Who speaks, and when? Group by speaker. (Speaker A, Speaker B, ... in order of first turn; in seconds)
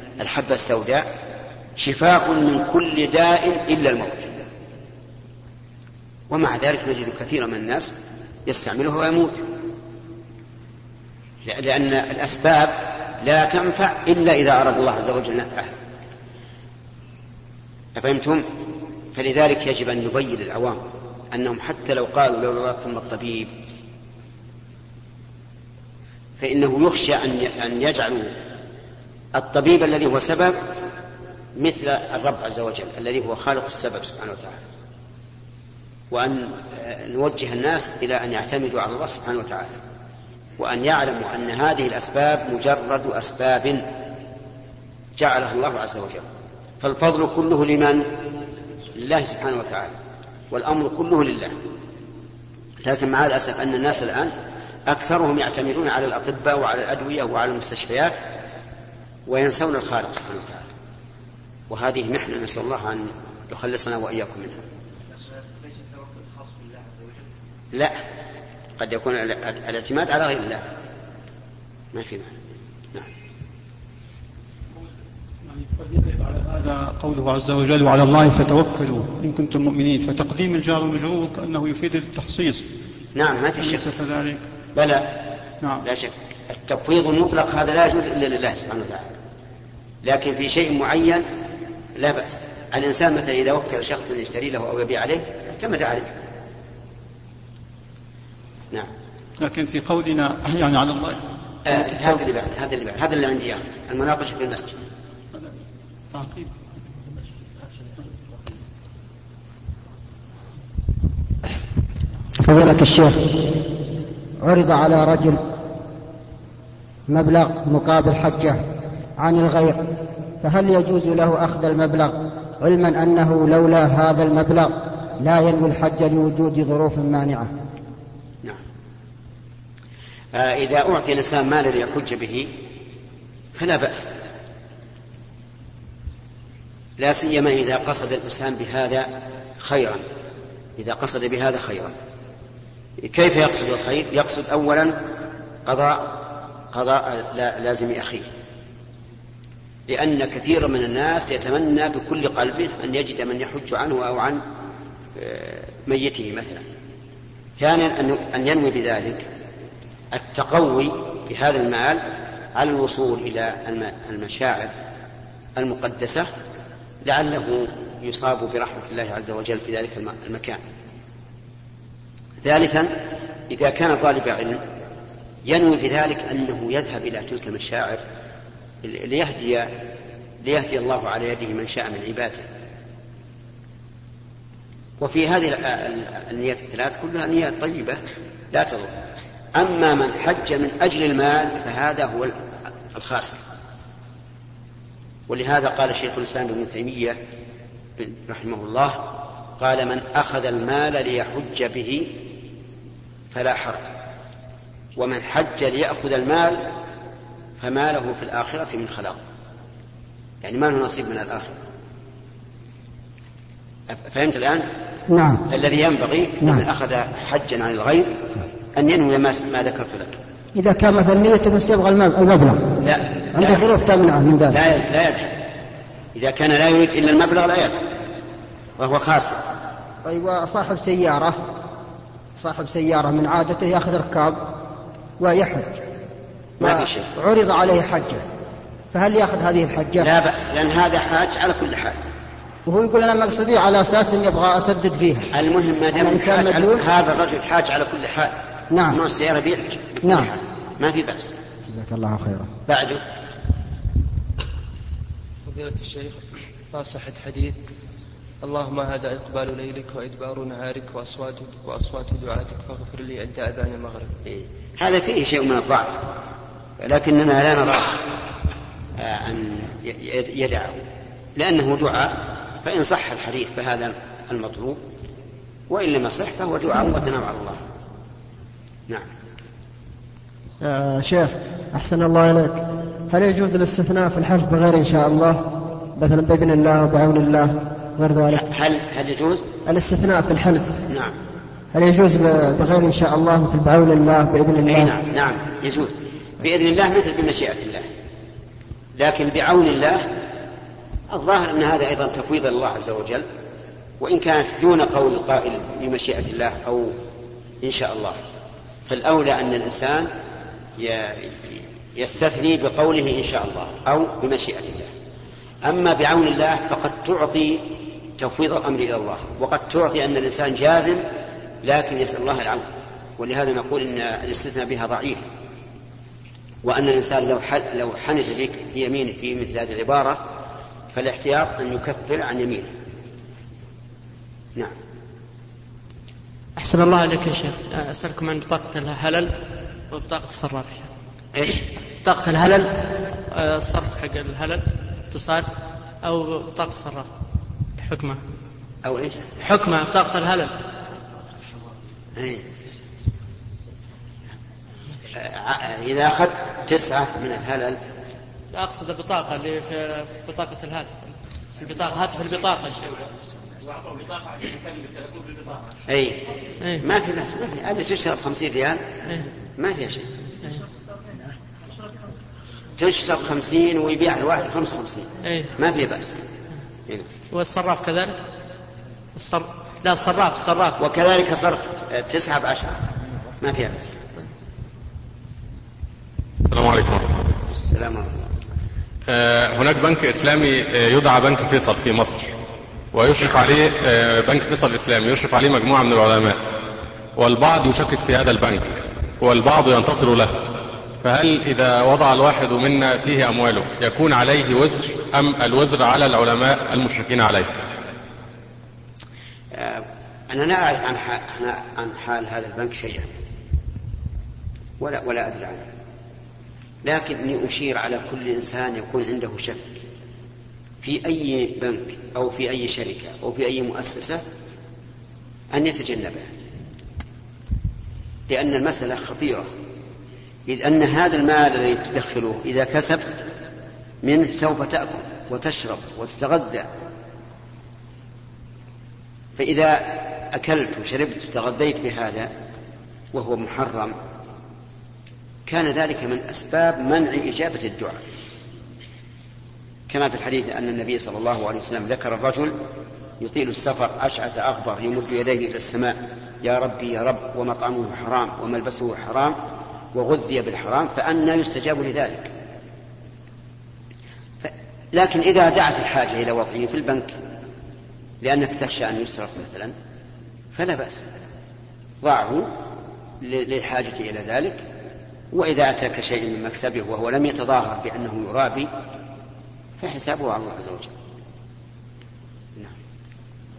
Speaker A: 0.2-1.1, 1.8-4.3, 6.3-7.9, 8.4-9.4, 11.4-15.7, 17.9-18.4, 19.1-23.5, 26.4-28.3, 29.3-30.6, 31.6-34.6, 36.1-39.8, 40.6-43.9, 45.2-46.2, 46.8-48.2, 48.9-49.9, 50.5-51.5, 52.8-54.3, 54.9-58.2, 59.3-60.6, 61.7-64.6, 68.8-70.6, 71.9-72.3, 83.2-83.9, 84.7-85.2, 85.8-89.1, 90.0-91.2, 92.0-96.1, 101.7-104.8, 130.3-132.5, 133.6-134.2, 137.0-140.0, 140.8-141.9, 143.0-145.0, 145.7-146.2, 146.7-148.3, 149.9-154.4, 155.2-156.6, 157.6-159.3, 160.1-162.0, 162.5-164.7, 165.6-166.3, 167.0-170.6, 172.4-172.9, 173.5-174.6, 175.4-178.0, 178.8-179.8, 180.4-182.4, 185.0-188.9, 189.5-192.3, 192.9-193.4, 195.3-197.2, 198.0-202.1, 203.3-203.9, 205.0-206.6, 207.6-209.2, 210.4-211.5, 213.9-214.7, 215.5-218.2, 218.8-220.2, 222.8-223.7, 224.5-225.3, 226.1-227.8, 228.8-229.4, 236.6-237.1, 240.0-242.0, 245.3-248.4, 248.9-251.3, 252.7-253.0, 264.3-266.1, 266.8-268.0, 269.0-270.8, 271.4-274.8, 275.7-277.6, 288.3-289.4, 290.9-291.1, 294.7-297.9, 299.0-300.1, 301.1-303.2, 304.0-306.9, 307.6-308.2, 308.9-310.1, 310.8-314.9, 315.6-321.0, 321.6-322.7, 323.2-325.2, 326.6-330.2, 330.9-332.7, 348.8-349.2, 355.1-357.8, 365.9-366.2, 366.8-368.8, 369.6-370.1, 372.8-376.1, 380.8-382.8, 383.4-384.1, 387.5-388.1, 409.5-413.1, 414.8-415.6, 416.8-419.8, 420.8-424.2, 425.5-426.3, 428.3-429.5, 430.5-433.2, 434.0-436.7, 439.4-442.3, 443.1-443.9, 445.5-448.0, 449.9-452.5, 453.2-459.4, 459.9-462.3, 464.4-467.1, 468.2-469.7, 470.5-471.0, 472.0-472.5, 473.2-474.6, 475.3-478.7, 479.8-480.9
Speaker B: 75.5-82.6, 83.6-84.4, 99.4-101.2, 106.1-106.5
Speaker C: 112.4-113.3, 114.4-115.4, 117.1-118.6, 119.2-119.8, 120.4-127.5, 215.1-215.4, 220.5-222.7, 223.3-224.6, 230.0-231.4, 232.4-234.4, 235.2-235.8, 236.6-238.2, 238.9-240.1, 242.7-245.3, 245.9-246.8, 248.7-249.0, 250.0-250.3, 251.7-252.5
Speaker D: 255.4-257.6, 258.4-264.1
Speaker E: 280.6-288.4, 289.6-290.8, 291.7-295.0
Speaker F: 336.6-339.4, 339.9-340.9, 342.0-345.5, 346.0-347.1, 347.8-348.2, 349.4-350.5, 358.5-361.0, 361.6-362.8, 375.2-375.5, 377.3-378.2, 379.1-380.8
Speaker G: 386.4-387.2, 389.1-392.3, 392.9-396.4, 397.2-407.5